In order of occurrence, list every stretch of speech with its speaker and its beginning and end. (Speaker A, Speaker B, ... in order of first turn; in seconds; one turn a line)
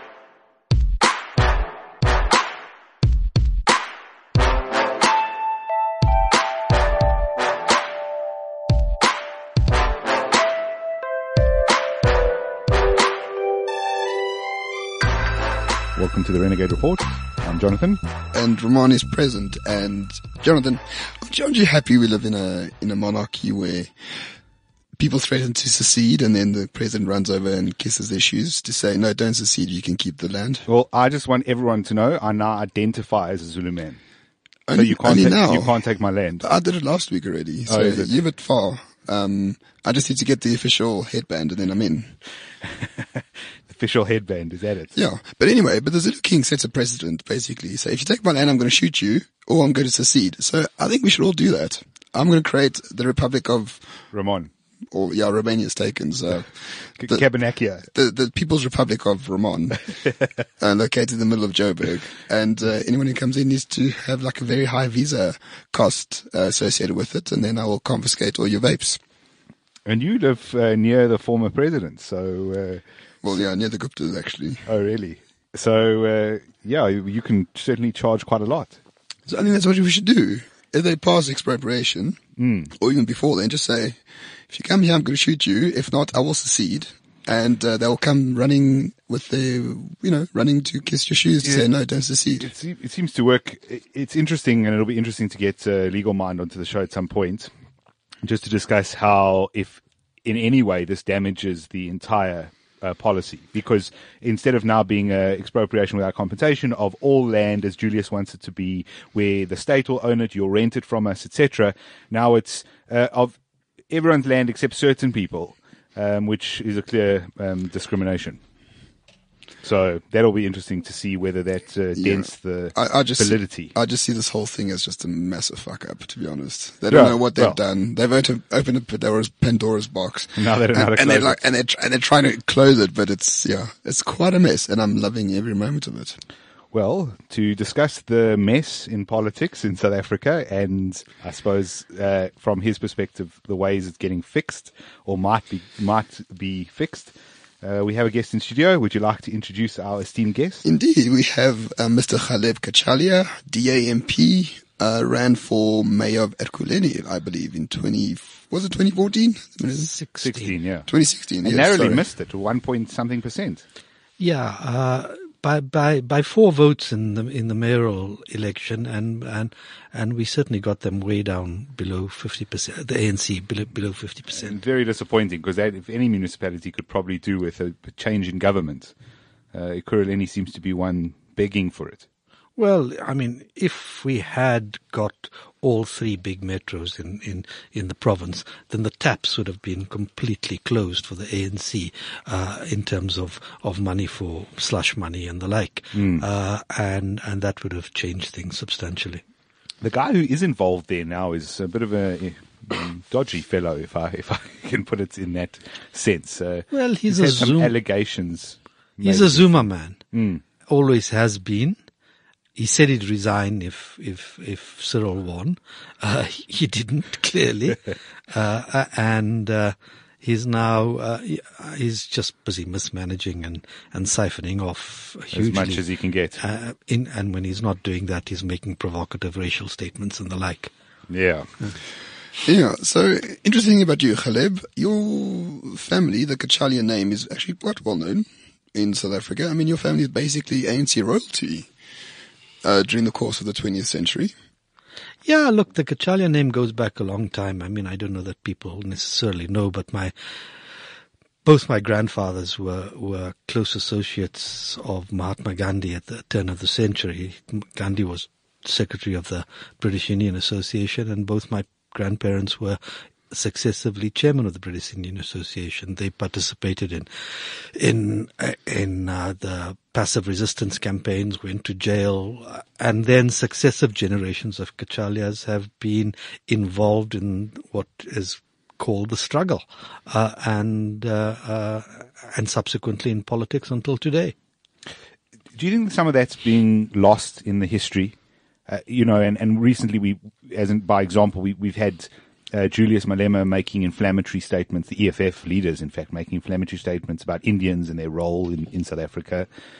Speaker A: 15.9-18.0
Speaker B: 18.3-23.9
Speaker B: 25.0-30.6
Speaker A: 30.7-34.0
Speaker B: 34.7-35.8
Speaker A: 34.7-36.4
Speaker B: 36.4-42.1
Speaker A: 37.7-38.1
Speaker A: 42.6-44.9
Speaker B: 44.9-53.9
Speaker A: 54.1-54.5
Speaker B: 54.9-57.2
Speaker A: 57.0-57.8
Speaker B: 57.9-59.9
Speaker B: 60.6-69.0
Speaker A: 69.8-72.8
Speaker B: 73.2-74.7
Speaker A: 74.7-78.8
Speaker B: 79.3-82.2
Speaker A: 82.4-82.7
Speaker B: 82.7-92.5
Speaker A: 92.4-97.5
Speaker A: 98.2-113.4
Speaker A: 113.9-118.4
Speaker A: 119.6-123.7
Speaker B: 122.0-136.2
Speaker A: 126.9-127.6
Speaker A: 130.4-131.4
Speaker A: 136.7-150.6
Speaker B: 150.6-160.0
Speaker C: 159.9-160.5
Speaker A: 160.2-160.9
Speaker B: 160.9-162.0
Speaker A: 161.4-163.6
Speaker C: 164.2-174.5
Speaker A: 174.3-178.9
Speaker A: 179.5-182.0
Speaker C: 182.6-199.2
Speaker A: 195.9-196.2
Speaker A: 199.8-210.4
Speaker C: 206.7-207.7
Speaker C: 209.0-210.0
Speaker C: 210.7-211.8
Speaker C: 212.6-225.8
Speaker A: 225.3-226.4
Speaker C: 226.4-230.7
Speaker A: 231.1-231.5
Speaker B: 232.4-241.7
Speaker B: 242.6-244.3
Speaker C: 245.2-250.1
Speaker C: 251.4-262.8
Speaker C: 263.3-284.3
Speaker A: 285.6-288.1
Speaker A: 288.7-299.5